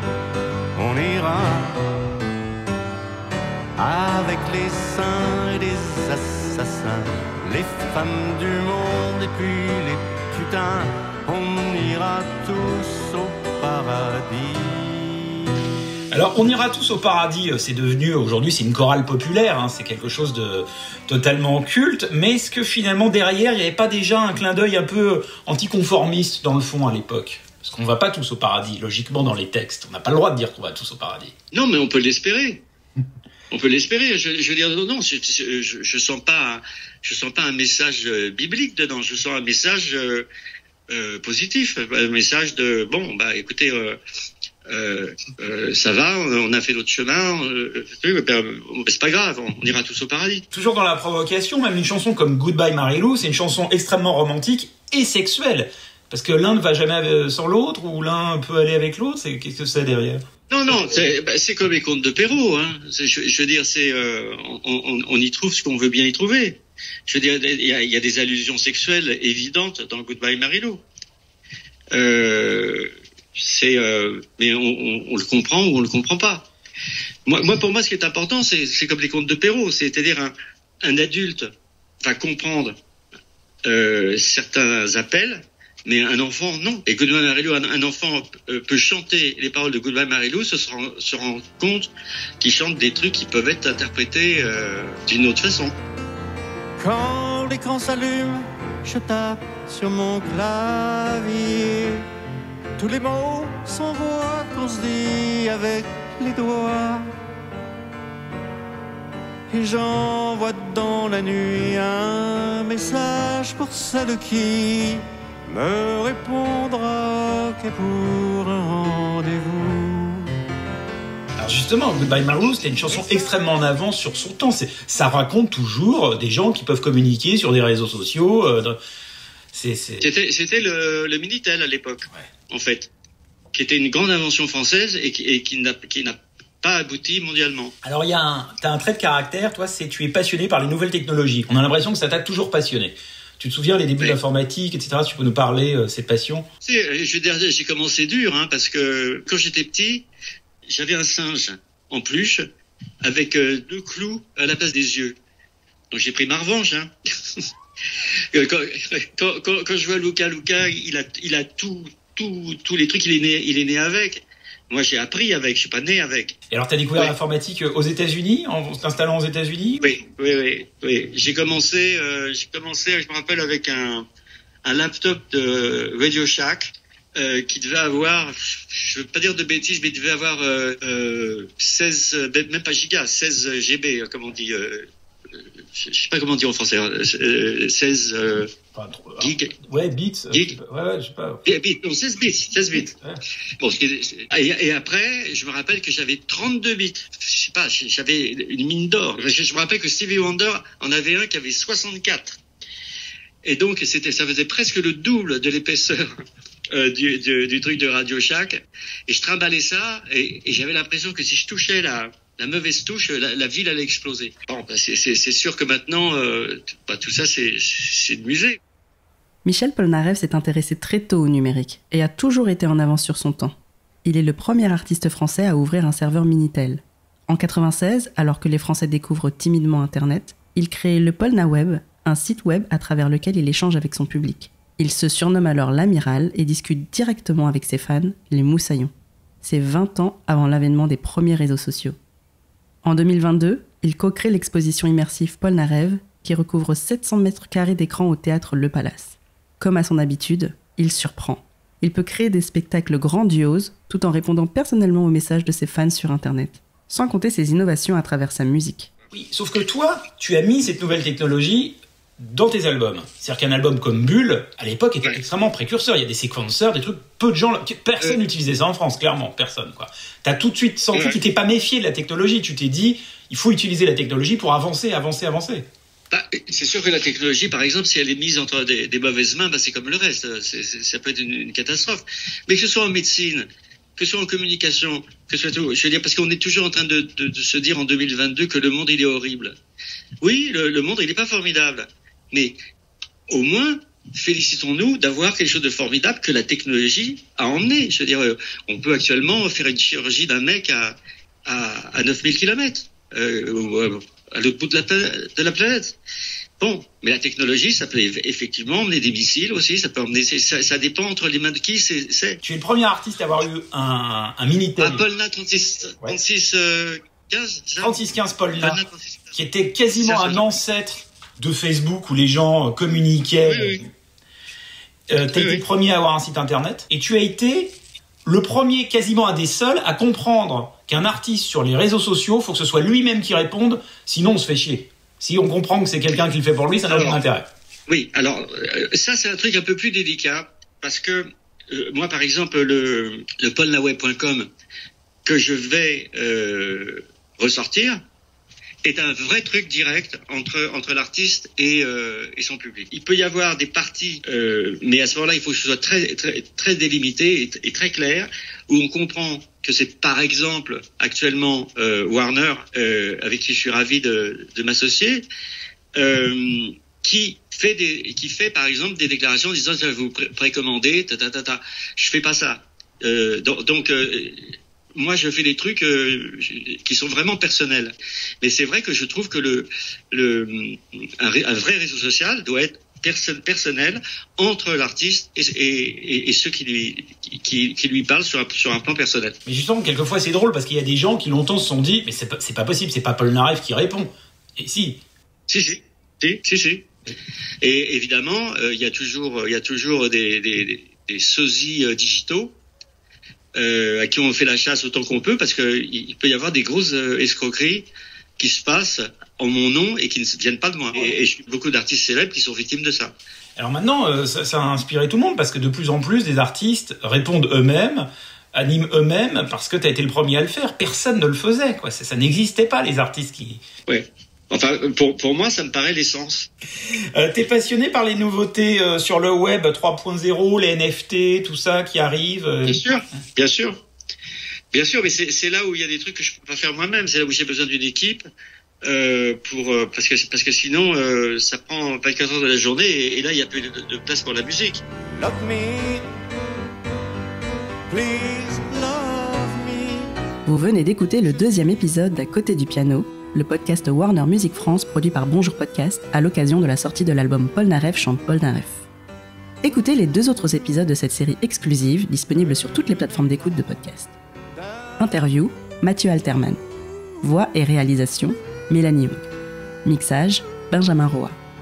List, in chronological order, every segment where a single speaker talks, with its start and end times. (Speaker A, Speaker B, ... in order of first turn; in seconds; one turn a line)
Speaker A: 0.8-1.5
Speaker B: 1.1-1.6
Speaker A: 3.8-14.9
Speaker B: 3.8-5.8
Speaker C: 16.1-31.3
Speaker B: 31.5-32.6
Speaker B: 33.5-40.3
Speaker B: 40.9-44.0
Speaker B: 44.7-50.4
Speaker C: 50.5-61.0
Speaker B: 60.5-70.8
Speaker B: 71.9-76.5
Speaker B: 77.3-81.5
Speaker B: 82.0-82.8
Speaker B: 83.7-95.8
Speaker A: 96.8-101.8
Speaker A: 102.8-107.0
Speaker A: 109.5-120.2
Speaker C: 121.4-128.8
Speaker C: 129.5-130.1
Speaker B: 130.0-132.9
Speaker B: 133.5-137.7
Speaker C: 137.8-146.4
Speaker B: 146.6-150.1
Speaker B: 150.7-152.4
Speaker B: 153.0-155.2
Speaker B: 155.9-156.9
Speaker B: 158.3-166.3
Speaker C: 166.5-169.8
Speaker B: 169.8-174.1
Speaker B: 174.6-184.9
Speaker B: 185.7-188.5
Speaker C: 188.8-191.4
Speaker B: 189.2-189.5
Speaker B: 191.5-192.9
Speaker C: 192.7-193.2
Speaker B: 193.6-202.4
Speaker B: 203.4-206.1
Speaker B: 206.7-218.6
Speaker D: 219.4-242.0
Speaker D: 242.8-258.9
Speaker C: 259.1-275.7
Speaker B: 270.9-271.2
Speaker B: 276.1-289.5
Speaker B: 290.2-292.6
Speaker B: 293.3-306.0
Speaker B: 306.6-312.4
Speaker C: 312.4-315.0
Speaker B: 314.8-318.0
Speaker C: 317.8-318.8
Speaker B: 318.6-319.4
Speaker C: 319.4-323.8
Speaker B: 319.9-320.6
Speaker B: 323.4-323.8
Speaker C: 325.1-327.8
Speaker B: 325.4-325.6
Speaker C: 328.2-337.5
Speaker B: 336.9-337.2
Speaker B: 337.9-344.5
Speaker B: 345.2-348.0
Speaker B: 348.9-365.2
Speaker B: 366.0-389.4
Speaker C: 389.5-395.0
Speaker B: 395.5-396.9
Speaker B: 397.6-402.6
Speaker B: 403.6-413.1
Speaker C: 413.6-423.6
Speaker B: 423.9-426.5
Speaker C: 427.1-432.8
Speaker B: 432.6-433.8
Speaker B: 434.7-438.2
Speaker B: 438.9-444.8
Speaker A: 445.2-446.0
Speaker A: 447.9-450.0
Speaker D: 450.5-458.9
Speaker D: 459.6-464.1
Speaker D: 465.0-466.6
Speaker D: 467.2-469.3
Speaker D: 469.9-471.4